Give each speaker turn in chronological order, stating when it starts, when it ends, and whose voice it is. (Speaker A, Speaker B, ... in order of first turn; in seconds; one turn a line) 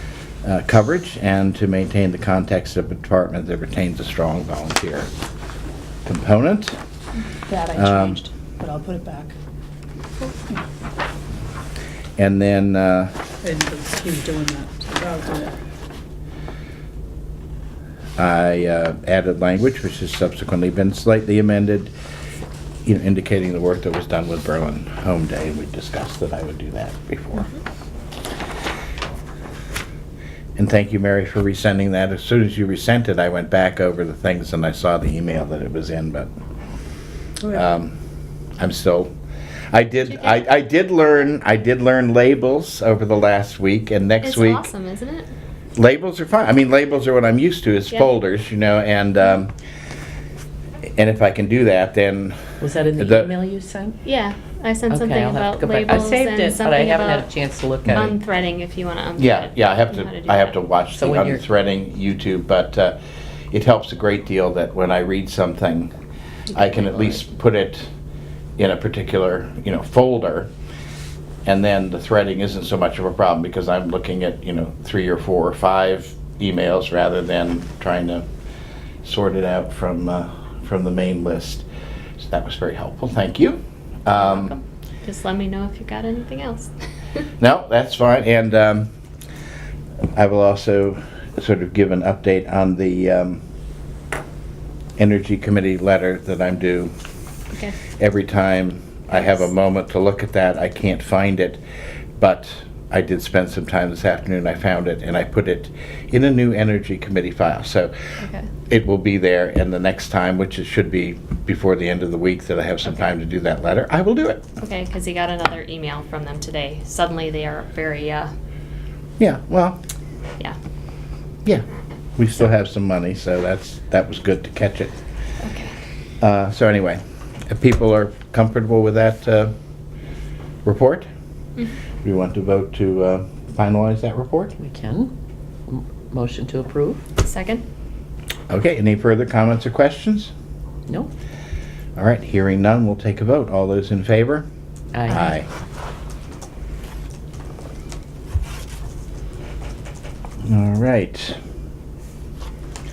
Speaker A: 0.4-5.1
Speaker A: 6.0-6.8
Speaker B: 7.5-9.3
Speaker A: 7.7-8.2
Speaker A: 12.2-13.1
Speaker B: 13.4-15.5
Speaker A: 18.2-21.9
Speaker A: 22.8-27.5
Speaker A: 30.6-36.3
Speaker A: 37.5-38.0
Speaker A: 38.6-39.1
Speaker A: 39.7-44.7
Speaker C: 44.2-45.3
Speaker A: 45.8-49.5
Speaker A: 51.0-53.3
Speaker D: 52.6-54.0
Speaker C: 54.0-57.3
Speaker D: 54.9-58.1
Speaker C: 57.9-60.6
Speaker A: 59.2-63.0
Speaker D: 60.9-61.4
Speaker A: 63.5-65.9
Speaker C: 66.5-67.2
Speaker A: 66.5-67.9
Speaker A: 68.6-70.5
Speaker A: 71.4-78.2
Speaker A: 79.0-81.6
Speaker A: 82.2-84.6
Speaker C: 84.2-86.7
Speaker A: 87.4-88.9
Speaker A: 90.1-93.4
Speaker A: 95.0-96.9
Speaker C: 97.5-97.8
Speaker A: 98.0-101.6
Speaker A: 102.2-107.9
Speaker C: 108.2-108.5
Speaker A: 108.7-114.5
Speaker C: 114.6-118.3
Speaker A: 119.2-119.8
Speaker A: 122.2-125.0
Speaker C: 125.4-125.7
Speaker A: 126.2-129.5
Speaker A: 130.6-131.1
Speaker A: 132.0-134.5
Speaker D: 134.6-135.1
Speaker D: 135.7-137.0
Speaker C: 137.2-137.6
Speaker A: 138.5-140.3
Speaker A: 141.9-144.5
Speaker D: 144.9-145.2
Speaker A: 145.1-145.5
Speaker A: 150.4-151.4